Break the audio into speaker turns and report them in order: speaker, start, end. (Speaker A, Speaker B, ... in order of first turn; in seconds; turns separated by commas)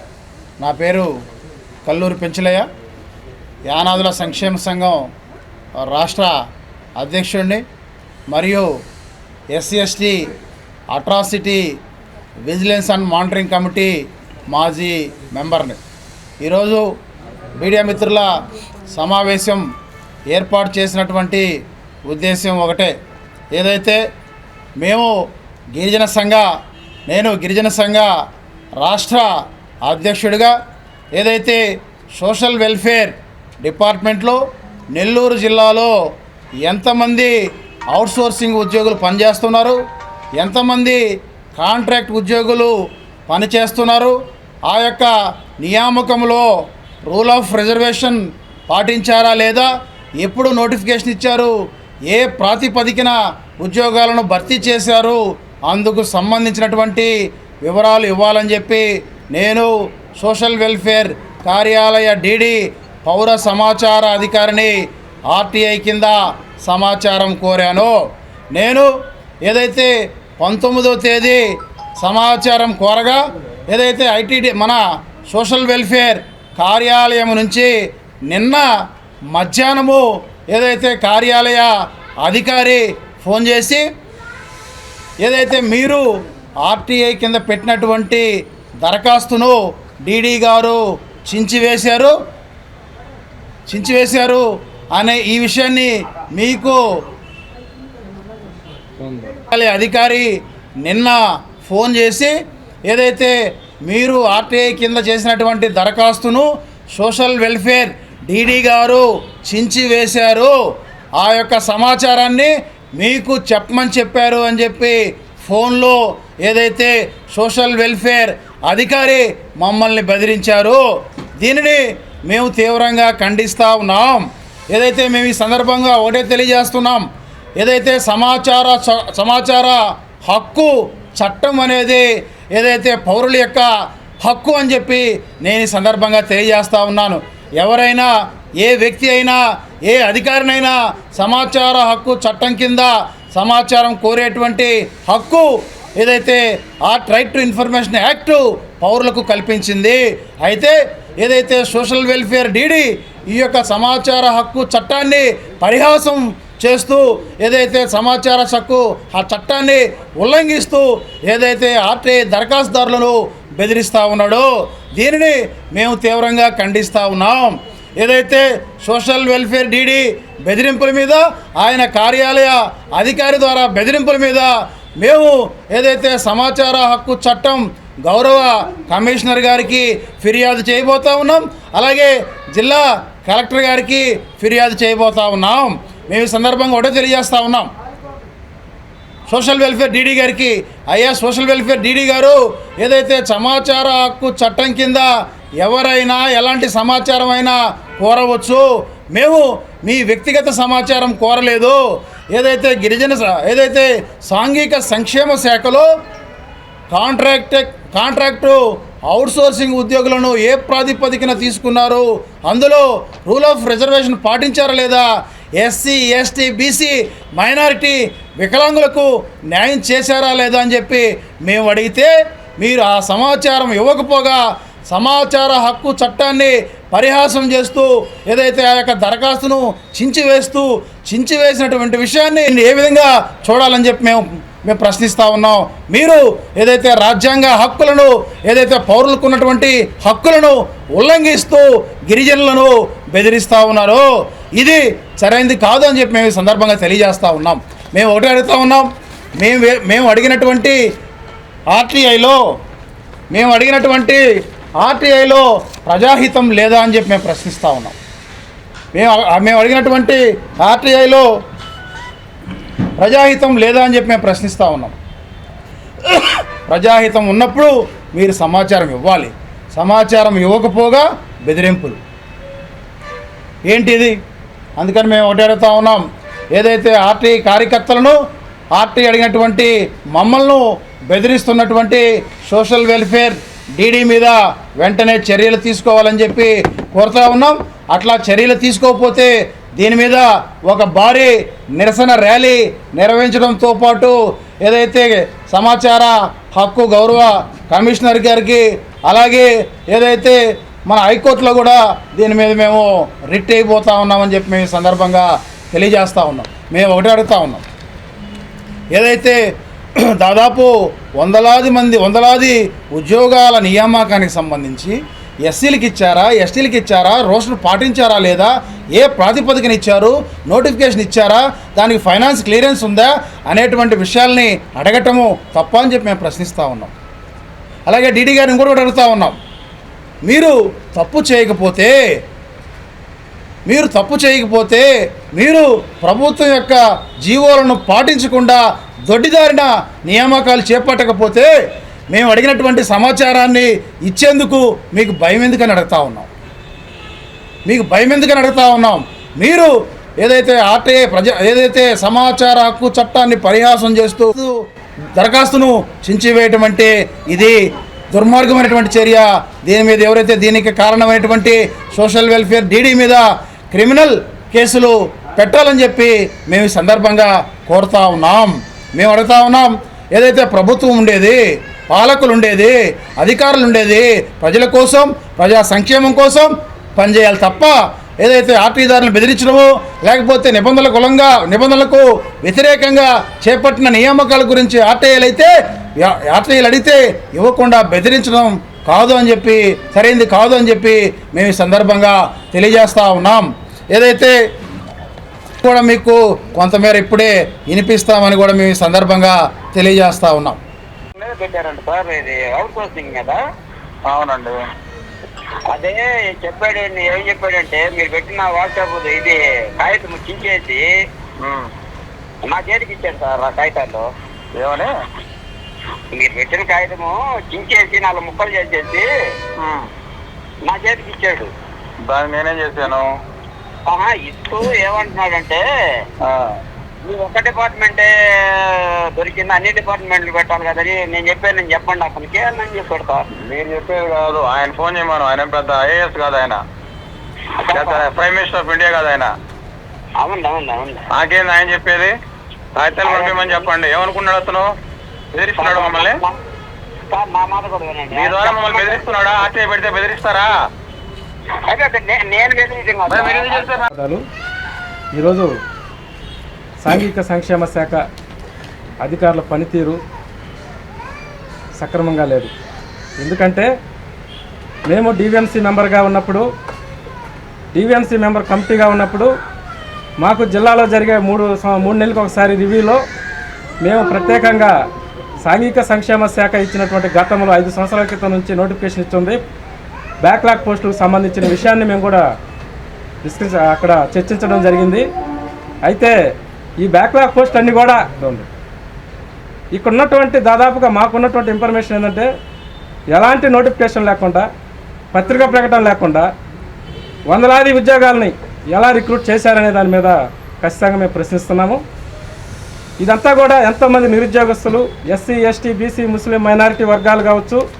Speaker A: 0.6-1.1, Speaker A: 1.8-2.6, Speaker A: 3.7-5.1, Speaker A: 5.8-6.3, Speaker A: 7.0-7.6, Speaker A: 8.3-8.7, Speaker A: 9.5-10.3, Speaker A: 10.9-11.7, Speaker A: 12.4-13.9, Speaker A: 14.5-15.8, Speaker A: 16.4-16.9, Speaker A: 17.6-18.3, Speaker A: 18.9-19.6, Speaker A: 20.3-21.5, Speaker A: 22.1-22.9, Speaker A: 23.5-24.0, Speaker A: 24.8-25.1, Speaker A: 25.7-26.5, Speaker A: 27.1-28.1, Speaker A: 28.8-29.3, Speaker A: 29.9-30.5, Speaker A: 31.1-31.6, Speaker A: 32.1-34.4, Speaker A: 34.9-35.9, Speaker A: 36.6-37.3, Speaker A: 37.9-39.8, Speaker A: 40.4-41.0, Speaker A: 41.5-42.7, Speaker A: 43.3-44.1, Speaker A: 44.7-46.5, Speaker A: 47.1-51.5, Speaker A: 52.1-57.1, Speaker A: 57.6-64.7, Speaker A: 65.3-68.0, Speaker A: 68.5-68.9, Speaker A: 69.5-71.5, Speaker A: 72.0-77.7, Speaker A: 78.3-78.7, Speaker A: 79.3-83.8, Speaker A: 85.2-86.0, Speaker A: 86.6-88.3, Speaker A: 88.8-92.1, Speaker A: 93.7-96.8, Speaker A: 99.0-102.3, Speaker A: 102.9-103.3, Speaker A: 103.8-110.5, Speaker A: 111.2-120.8, Speaker A: 121.4-127.1, Speaker A: 127.6-133.7, Speaker A: 134.2-138.1, Speaker A: 138.6-187.7, Speaker A: 189.3-201.8, Speaker A: 202.3-205.8, Speaker A: 206.9-215.1, Speaker A: 215.6-244.1, Speaker A: 244.6-248.9, Speaker A: 249.4-250.8, Speaker A: 251.7-252.4, Speaker A: 253.3-254.2, Speaker A: 254.8-258.0, Speaker A: 258.9-261.3, Speaker A: 263.0-264.9, Speaker A: 266.1-272.0, Speaker A: 273.6-274.2, Speaker A: 274.8-278.2, Speaker A: 278.8-307.6, Speaker A: 308.9-309.4, Speaker A: 310.0-326.9, Speaker A: 327.9-329.4, Speaker A: 330.2-331.9, Speaker A: 333.7-341.5, Speaker A: 342.1-346.3, Speaker A: 347.6-354.5, Speaker A: 355.1-357.6, Speaker A: 358.1-394.4, Speaker A: 395.6-400.6, Speaker B: 401.2-403.4, Speaker C: 404.1-404.6, Speaker B: 405.7-410.8, Speaker C: 411.4-411.7, Speaker B: 412.4-414.1, Speaker C: 414.6-414.9, Speaker B: 416.1-419.1, Speaker C: 419.6-419.9, Speaker B: 420.6-421.5, Speaker C: 422.1-423.1, Speaker B: 423.9-425.6, Speaker C: 426.2-426.5, Speaker B: 427.0-433.3, Speaker C: 433.4-436.6, Speaker B: 437.7-438.1, Speaker C: 437.7-439.3, Speaker B: 440.2-441.0, Speaker C: 441.1-442.1, Speaker C: 442.8-444.7, Speaker B: 443.0-443.7, Speaker C: 445.3-446.2, Speaker B: 445.5-446.3, Speaker B: 447.1-449.2, Speaker C: 448.1-450.5, Speaker B: 451.6-453.8, Speaker C: 453.1-453.9, Speaker D: 453.9-454.2, Speaker D: 455.1-455.5, Speaker D: 456.8-458.0, Speaker D: 459.0-460.0, Speaker D: 461.8-462.5, Speaker D: 463.2-463.7, Speaker D: 464.9-466.4, Speaker D: 467.7-469.3, Speaker D: 470.2-473.0, Speaker D: 473.8-474.7, Speaker D: 475.4-479.4, Speaker D: 480.2-482.2, Speaker D: 483.2-485.0, Speaker D: 485.9-486.1, Speaker D: 486.8-488.5, Speaker D: 489.7-492.3, Speaker D: 493.1-494.4, Speaker D: 495.1-496.3, Speaker D: 497.3-501.8, Speaker D: 503.0-507.6